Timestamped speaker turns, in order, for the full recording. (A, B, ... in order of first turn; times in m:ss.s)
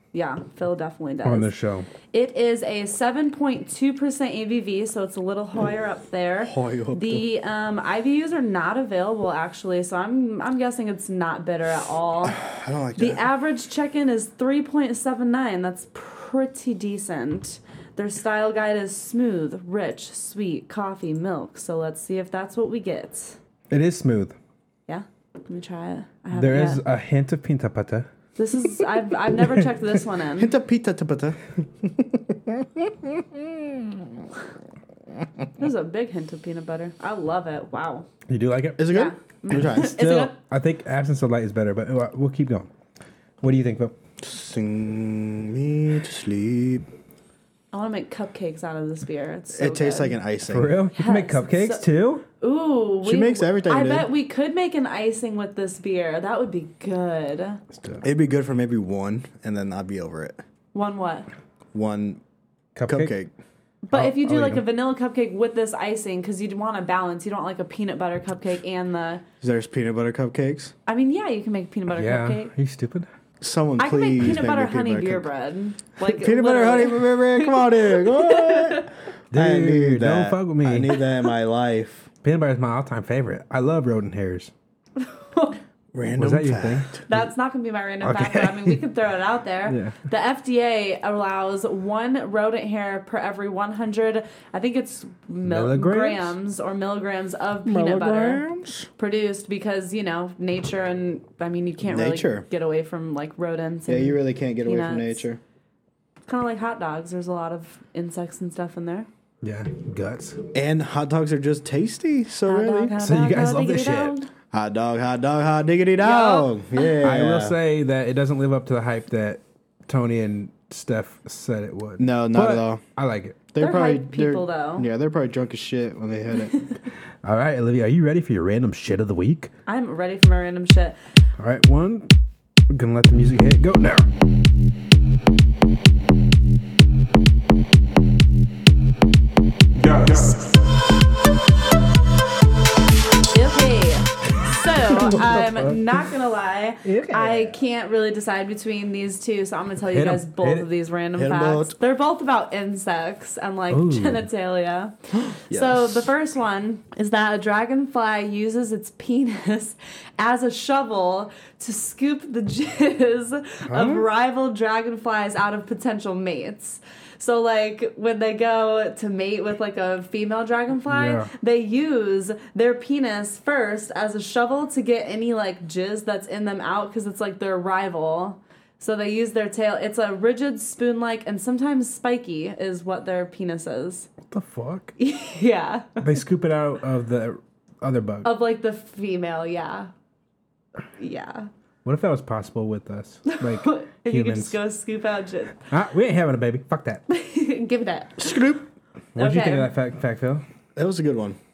0:00.1-0:01.5 A
0:01.2-0:01.9 B
0:02.1-0:12.4 A
0:06.4-0:07.2 C
0:12.3-0:13.2 C
0:13.0-0:23.4 A
0:23.7-0:24.4 B
0:24.9-0:26.8 A
0:26.3-0:28.1 B
0:28.4-0:30.5 A
0:30.4-0:32.6 C
0:35.6-0:38.1 A
0:38.3-0:38.8 B
0:38.8-0:40.0 C
0:38.9-0:40.3 A
0:39.6-0:42.7 B
0:43.4-0:43.9 B
0:44.2-0:46.9 C
0:47.7-0:50.2 A
0:49.6-0:50.7 C
0:50.4-0:52.2 B
0:50.9-0:51.8 A
0:52.4-0:57.6 A
0:53.0-0:54.1 C
0:57.8-0:58.0 B
0:58.0-1:00.4 C
1:00.7-1:01.3 A
1:01.7-1:02.2 C
1:02.7-1:03.1 B
1:02.9-1:03.3 C
1:03.8-1:09.2 A
1:03.9-1:04.6 B
1:09.4-1:10.7 C
1:10.9-1:12.5 A
1:11.9-1:13.1 B
1:13.4-1:15.3 C
1:13.8-1:18.9 A
1:16.0-1:22.1 C
1:19.3-1:21.0 B
1:22.2-1:24.5 B
1:25.0-1:25.6 A
1:25.9-1:27.0 C
1:26.1-1:27.3 B
1:27.1-1:38.4 A
1:28.0-1:28.8 B
1:29.7-1:30.0 B
1:35.4-1:36.3 B
1:37.6-1:38.9 C
1:39.0-1:45.2 A
1:41.8-1:42.4 C
1:43.9-1:45.4 C
1:46.3-1:49.1 A
1:49.4-1:50.4 B
1:50.5-1:52.9 C
1:52.4-1:54.3 A
1:53.0-1:54.1 B
1:54.5-1:57.6 C
1:56.0-1:56.9 A
1:57.0-2:03.4 B
2:02.0-2:02.8 C
2:03.5-2:06.6 C
2:03.6-2:04.9 A
2:07.2-2:09.5 B
2:09.7-2:11.0 A
2:11.4-2:12.1 B
2:12.7-2:14.1 B
2:19.8-2:20.5 B
2:23.3-3:04.1 A
2:24.8-2:25.9 B
2:26.8-2:27.5 B
2:29.8-2:30.7 B
2:31.2-2:31.7 C
2:33.7-2:34.2 B
2:35.1-2:36.1 C
2:43.7-2:44.0 B
2:50.9-2:51.3 B
3:04.2-3:04.9 B
3:05.0-3:06.0 A
3:06.0-3:08.3 B
3:08.2-3:09.9 A
3:11.0-3:11.5 A
3:11.8-3:14.6 B
3:13.2-3:15.7 A
3:15.7-3:17.0 B
3:17.1-3:18.4 A
3:18.2-3:18.6 C
3:19.1-3:20.4 B
3:19.2-3:19.7 A
3:20.8-3:21.4 C